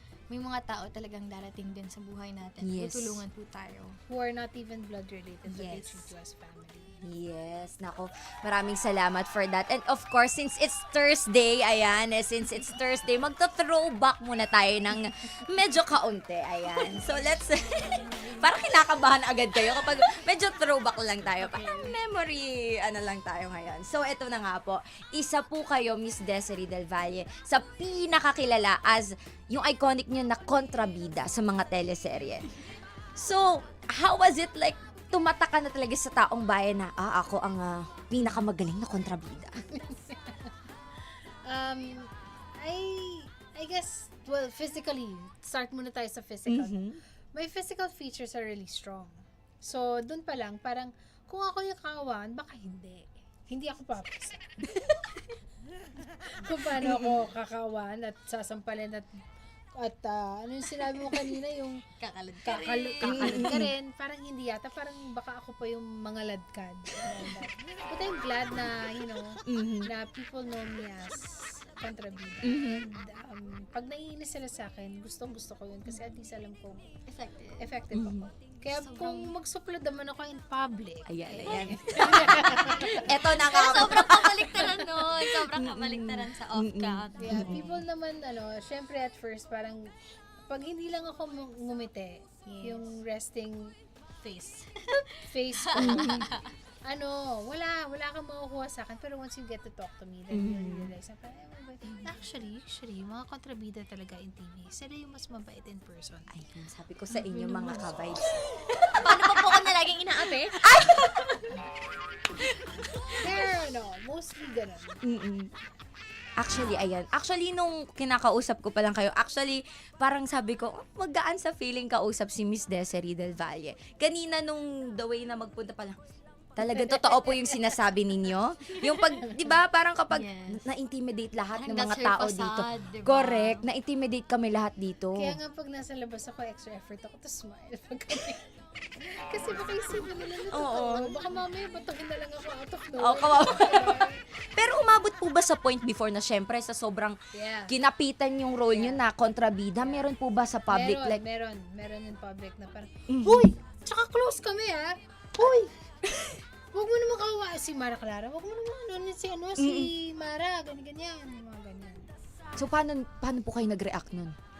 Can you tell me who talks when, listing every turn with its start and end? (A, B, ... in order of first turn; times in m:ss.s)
0:00.3-0:03.9 A
0:02.6-0:03.2 B
0:04.1-0:07.0 C
0:05.5-0:06.1 A
0:07.0-0:32.6 B
0:17.7-0:18.5 A
0:21.4-0:21.8 C
0:33.2-0:39.6 B
0:39.7-0:40.5 C
0:41.4-0:54.5 C
0:46.5-0:47.0 B
0:56.4-0:59.2 C
0:56.8-0:57.2 B
0:59.8-1:01.8 C
1:02.0-1:03.6 A
1:02.4-1:16.9 C
1:03.0-1:03.7 B
1:09.5-1:09.9 B
1:12.4-1:12.9 B
1:17.1-1:17.7 A
1:17.6-1:23.1 C
1:17.9-1:18.3 B
1:18.7-1:19.3 A
1:21.1-1:24.7 B
1:23.2-1:27.7 A
1:25.6-1:27.8 B
1:27.2-1:29.9 C
1:30.4-1:33.7 C
1:32.4-1:32.9 A
1:34.2-1:36.5 A
1:35.2-1:36.3 C
1:35.8-1:36.2 B
1:36.8-1:46.3 C
1:40.3-1:40.9 B
1:46.3-1:49.5 B
1:47.1-1:47.9 A
1:48.9-1:51.6 A
1:50.6-1:51.0 B
1:52.5-1:53.2 A
1:53.2-1:55.0 C
1:55.0-1:55.5 B
1:56.4-2:06.0 B
2:06.6-2:15.4 B
2:06.6-2:07.7 C
2:08.8-2:09.5 C
2:10.1-2:10.6 A
2:11.6-2:13.7 A
2:15.1-2:24.2 C
2:20.5-2:21.2 B
2:22.9-2:27.2 B
2:27.3-2:27.7 C
2:27.7-2:31.2 B
2:28.7-2:29.0 C
2:30.7-2:35.7 C
2:33.1-2:33.5 B
2:35.4-2:36.4 B
2:36.7-2:42.1 C
2:39.6-2:39.9 B
2:42.6-2:44.4 B